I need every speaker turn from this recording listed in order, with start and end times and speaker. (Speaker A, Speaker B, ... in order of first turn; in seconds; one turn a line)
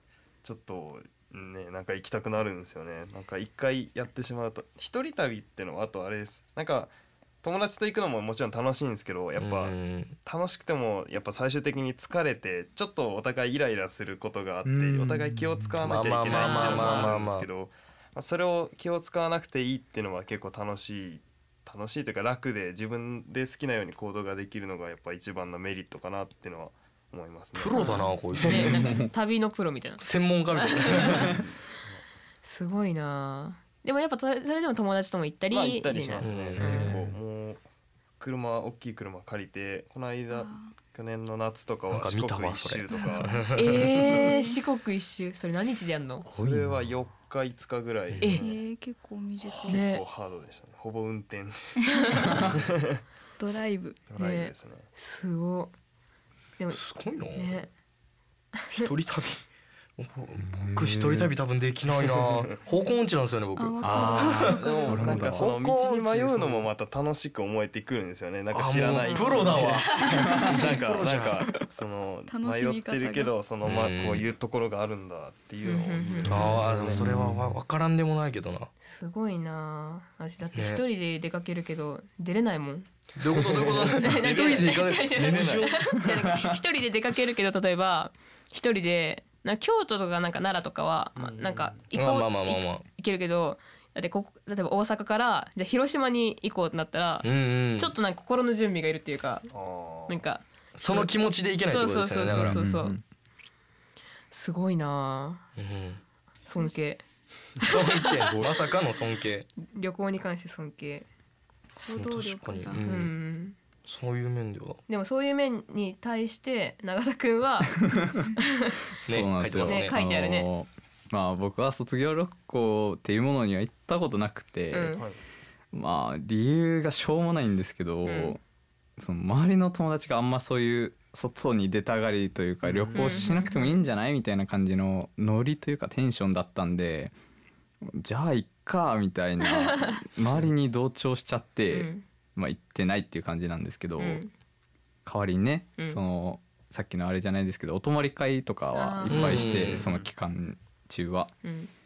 Speaker A: 0.4-6.9
Speaker A: 7.4-27.9
Speaker B: 9.4-10.2
Speaker C: 14.6-15.8
Speaker B: 15.8-17.5
Speaker D: 16.3-17.1
Speaker B: 27.6-28.8
Speaker D: 27.7-31.3
Speaker C: 28.6-29.1
Speaker B: 30.0-31.3
Speaker A: 31.2-32.0
Speaker D: 32.4-37.0
Speaker A: 35.5-37.6
Speaker B: 36.2-36.9
Speaker C: 36.6-37.0
Speaker A: 38.2-43.5
Speaker E: 40.3-40.7
Speaker B: 41.9-43.9
Speaker D: 43.5-46.2
Speaker E: 44.0-44.6
Speaker A: 46.2-48.6
Speaker C: 46.3-46.9
Speaker E: 48.4-49.8
Speaker A: 49.6-53.0
Speaker D: 49.7-50.0
Speaker D: 51.9-52.3
Speaker E: 53.4-54.0
Speaker A: 54.1-54.9
Speaker D: 54.2-55.7
Speaker B: 56.7-57.6
Speaker D: 57.3-57.7
Speaker B: 58.7-59.4
Speaker B: 60.0-66.7
Speaker C: 60.4-61.3
Speaker E: 63.6-65.2
Speaker C: 63.8-65.5
Speaker A: 64.1-77.0
Speaker B: 68.5-71.5
Speaker D: 69.1-70.2
Speaker E: 72.3-73.3
Speaker B: 73.6-74.3
Speaker D: 75.6-76.6
Speaker B: 76.3-78.7
Speaker C: 76.4-77.6
Speaker D: 78.8-82.9
Speaker B: 80.5-80.8
Speaker B: 83.2-85.8
Speaker A: 83.5-85.7
Speaker D: 84.0-99.5
Speaker A: 91.2-91.8
Speaker B: 91.9-92.8
Speaker B: 97.2-97.9
Speaker A: 99.5-100.2
Speaker D: 100.1-103.0
Speaker B: 100.8-102.6
Speaker C: 102.3-103.0
Speaker D: 104.3-105.4
Speaker B: 105.6-106.0
Speaker D: 106.5-107.0
Speaker B: 107.6-109.5
Speaker D: 109.6-111.1
Speaker E: 111.8-112.9
Speaker B: 111.9-113.1
Speaker D: 112.8-113.6
Speaker B: 113.9-114.8
Speaker D: 114.9-117.8
Speaker C: 117.9-118.3
Speaker D: 118.3-118.8
Speaker C: 119.0-125.0
Speaker B: 119.1-120.0
Speaker D: 119.7-120.5
Speaker D: 124.7-125.0
Speaker C: 125.7-128.4
Speaker D: 128.1-128.4
Speaker C: 129.0-137.1
Speaker A: 132.6-133.3
Speaker D: 132.9-133.8
Speaker C: 137.8-144.2
Speaker D: 139.5-140.0
Speaker D: 141.7-142.0
Speaker D: 144.0-144.3
Speaker C: 145.1-151.3
Speaker D: 148.7-149.6
Speaker B: 149.1-149.9
Speaker A: 149.2-150.1
Speaker D: 151.4-151.7